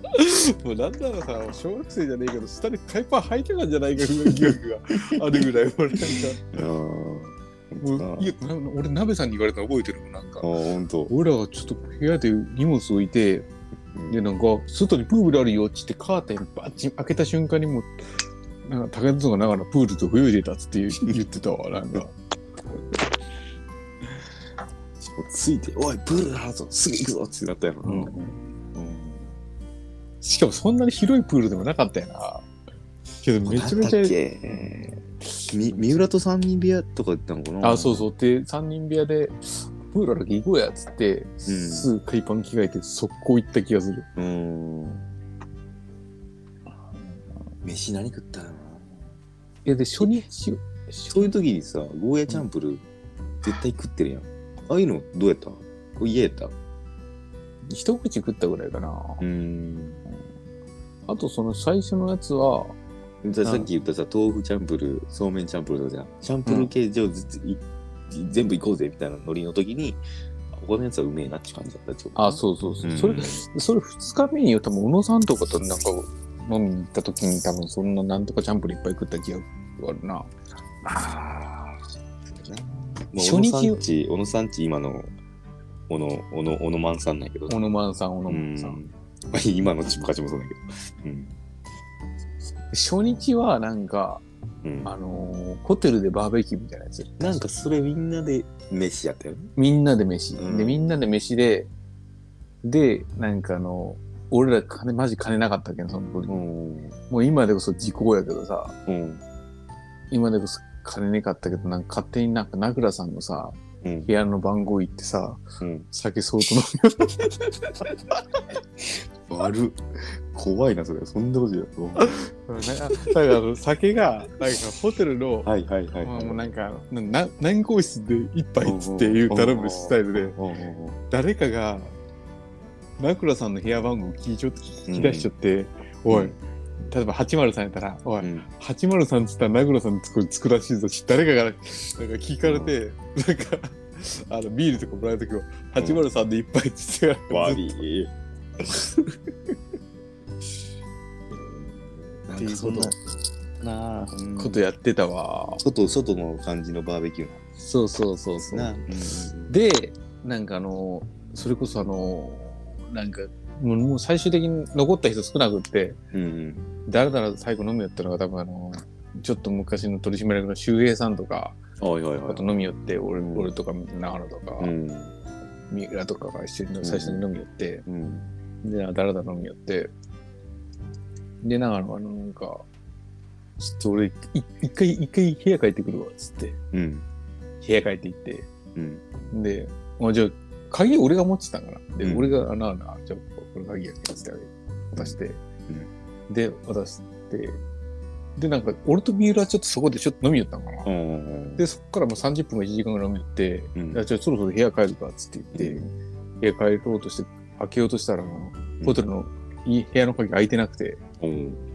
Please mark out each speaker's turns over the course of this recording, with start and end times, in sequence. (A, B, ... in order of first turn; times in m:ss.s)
0:00.1-0:06.6 A
0:04.2-0:04.6 B
0:06.5-0:08.3 B
0:07.8-0:10.5 A
0:10.4-0:11.1 B
0:11.1-0:13.5 A
0:14.1-0:17.9 A
0:18.6-0:22.2 A
0:25.0-0:29.3 B
0:27.8-0:28.4 A
0:30.2-0:32.5 A
0:33.2-0:34.7 A
0:33.5-0:38.1 B
0:35.4-0:36.0 A
0:37.6-0:44.1 A
0:41.5-0:41.9 B
0:44.2-0:45.1 B
0:47.6-0:49.0 B
0:49.6-0:51.3 A
0:51.1-0:52.8 B
0:53.4-0:56.6 B
0:57.7-0:59.2 A
0:59.2-1:00.0 B
1:01.1-1:02.8 A
1:03.2-1:10.0 B
1:03.4-1:03.7 A
1:06.5-1:06.7 A
1:10.5-1:13.4 B
1:12.2-1:20.3 A
1:20.8-1:21.8 B
1:22.3-1:25.1 B
1:23.2-1:23.8 A
1:25.9-1:27.6 B
1:27.5-1:28.8 A
1:28.3-1:31.4 B
1:32.7-1:34.2 A
1:34.6-1:34.9 B
1:34.8-1:37.4 A
1:37.2-1:39.5 B
1:39.6-1:41.7 A
1:40.4-1:41.0 B
1:42.6-1:46.4 A
1:46.3-1:47.0 B
1:47.1-1:48.8 A
1:48.9-1:49.2 B
1:50.1-1:58.2 A
1:53.8-1:54.1 B
1:55.6-1:55.9 B
1:58.8-2:02.3 B
2:02.0-2:05.5 A
2:05.4-2:06.4 B
2:06.0-2:10.4 A
2:08.6-2:11.0 B
2:11.1-2:12.0 A
2:13.0-2:27.8 A
2:14.9-2:15.3 B
2:16.1-2:16.4 B
2:18.2-2:18.5 B
2:22.4-2:22.8 B
2:25.8-2:26.0 B
2:27.3-2:28.1 B
2:31.3-2:33.0 B
2:32.4-2:33.0 A
2:33.6-2:34.7 B
2:34.2-2:35.6 A
2:35.6-2:37.4 B
2:37.6-2:38.8 A
2:38.4-2:39.6 B
2:39.5-2:46.0 A
2:46.1-2:46.7 B
2:46.9-2:51.6 A
2:51.8-2:52.6 B
2:52.3-2:54.7 A
2:53.1-2:53.5 B
2:54.6-2:55.2 B
2:55.7-2:57.8 A
2:56.8-2:57.2 B
2:57.9-2:58.3 B
2:58.6-2:59.9 A
3:01.4-3:02.6 A
3:03.6-3:06.6 A
3:06.7-3:07.1 B
3:07.6-3:08.5 A
3:08.8-3:09.0 B
3:09.3-3:15.4 A
3:12.0-3:12.4 B
3:14.9-3:15.9 B
3:16.3-3:17.6 A
3:18.4-3:20.9 A
3:20.8-3:21.6 B
3:21.6-3:25.8 A
3:23.8-3:24.0 B
3:25.5-3:25.9 B
3:26.4-3:31.0 A
3:28.8-3:29.0 B
3:31.2-3:31.6 B